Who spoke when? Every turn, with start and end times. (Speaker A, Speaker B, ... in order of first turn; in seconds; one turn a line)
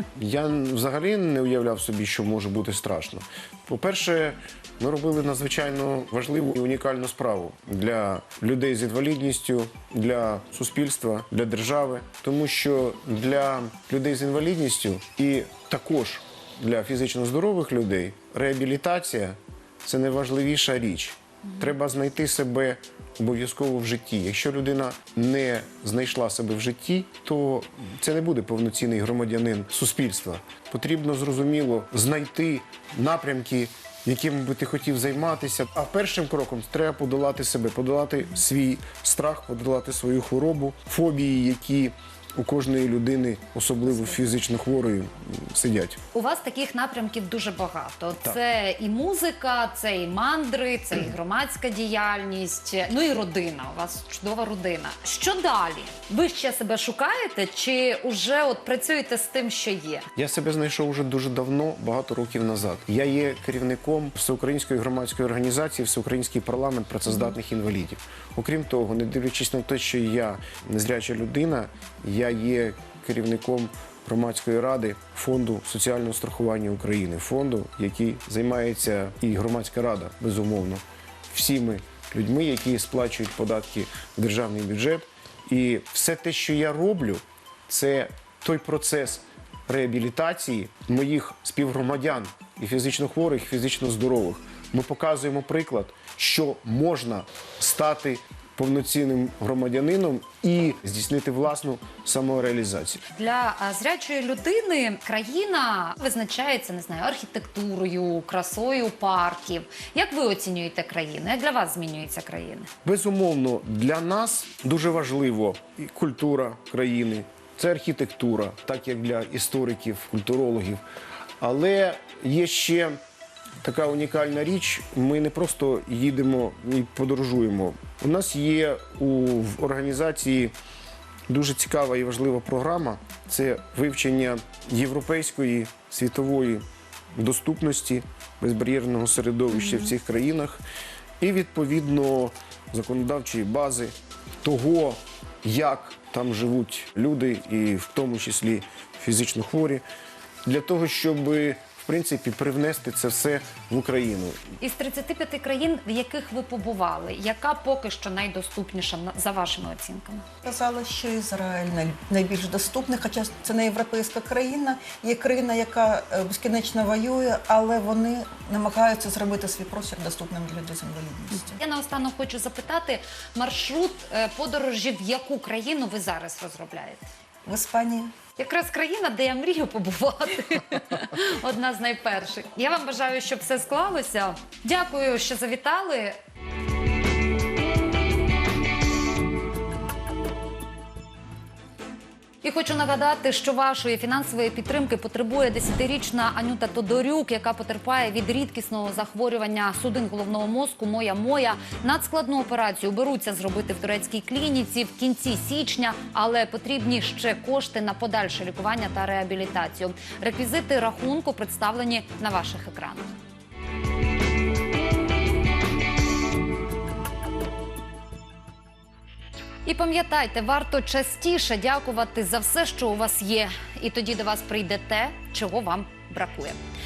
Speaker A: 0.2-46.0
Speaker B: 46.1-60.1
Speaker A: 60.2-103.0
Speaker B: 103.1-112.7
Speaker A: 112.8-120.8
Speaker A: 121.4-123.0
Speaker A: 123.6-130.5
Speaker A: 131.3-136.7
Speaker A: 137.2-140.6
Speaker A: 141.2-149.8
Speaker A: 150.5-154.4
Speaker B: 154.6-160.3
Speaker C: 160.4-171.6
Speaker B: 171.6-177.1
Speaker C: 177.5-178.1
Speaker B: 178.4-186.2
Speaker B: 192.4-213.1
Speaker B: 219.7-226.6